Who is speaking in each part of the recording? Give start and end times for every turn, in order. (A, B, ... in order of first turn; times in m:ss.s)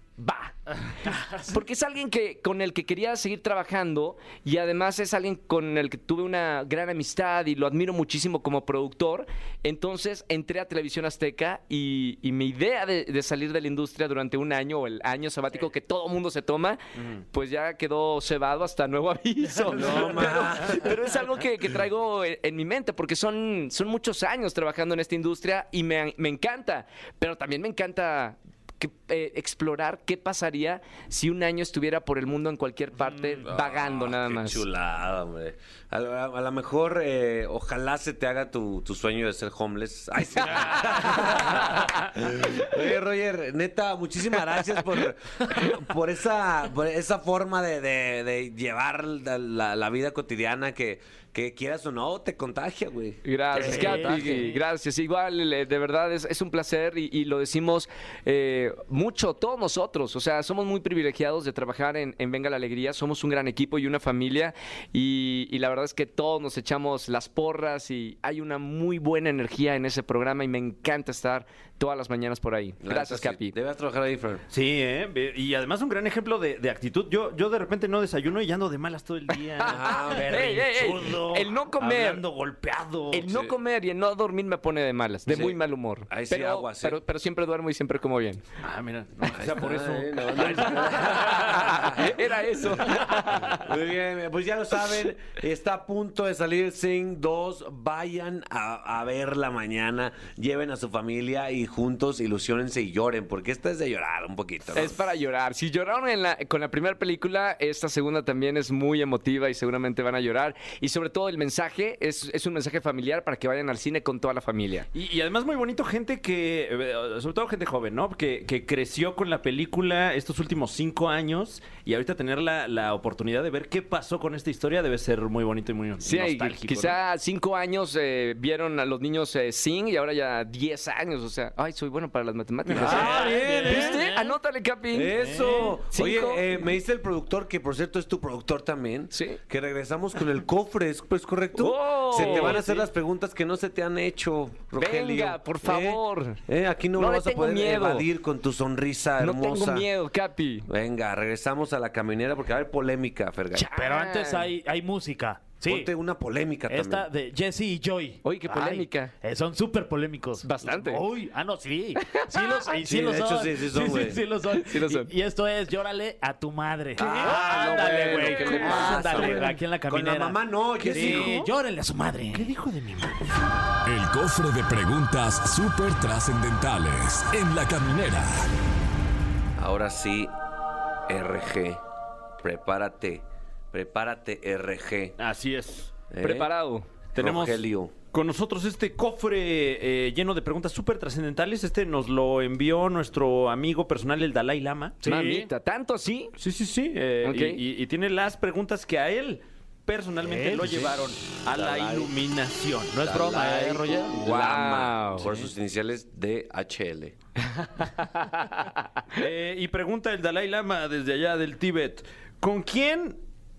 0:00.2-0:34.6 A
0:19.6-0:20.9 B
0:33.4-0:54.5 B
0:53.2-1:13.5 A
0:53.6-0:54.4 C
1:12.8-1:14.4 B
1:14.5-1:21.2 D
1:19.6-1:22.2 A
1:19.6-1:20.5 B
1:20.5-1:23.1 C
1:21.8-1:23.2 D
1:23.1-1:28.4 A
1:25.3-1:27.0 B
1:28.6-1:31.7 D
1:29.3-1:32.2 B
1:30.9-1:33.7 A
1:33.4-1:45.0 B
1:44.7-1:54.9 A
1:54.9-2:07.0 D
2:06.0-2:15.2 A
2:12.7-2:14.1 D
2:12.7-2:14.0 B
2:12.8-2:14.3 C
2:14.9-2:29.9 B
2:15.2-2:15.7 D
2:15.7-2:16.7 A
2:19.1-2:19.4 A
2:21.5-2:22.8 A
2:22.2-2:22.6 D
2:24.8-2:26.4 A
2:27.0-2:28.0 A
2:29.2-2:30.7 A
2:30.7-2:33.7 B
2:33.5-2:34.5 A
2:33.7-2:35.9 C
2:35.6-2:37.1 B
2:36.7-2:52.5 C
2:38.2-2:39.1 A
2:40.4-2:41.0 A
2:42.0-2:42.7 A
2:42.8-2:44.2 B
2:44.5-2:45.1 A
2:47.0-2:51.4 B
2:47.0-2:49.3 A
2:50.8-2:51.5 D
2:52.3-2:53.3 D
2:53.8-2:58.5 E
2:59.6-3:00.3 B
3:01.1-3:01.8 B
3:02.4-3:05.2 B
3:05.2-3:05.9 D
3:06.1-3:06.5 B
3:06.2-3:06.9 A
3:07.1-3:08.0 B
3:07.2-3:15.4 D
3:15.0-3:15.4 C
3:15.0-3:16.4 A
3:16.4-3:23.1 D
3:17.2-3:17.6 A
3:20.2-3:20.7 C
3:21.4-3:22.1 B
3:22.9-3:24.2 C
3:23.0-3:27.2 B
3:24.2-3:25.3 A
3:29.1-3:33.2 D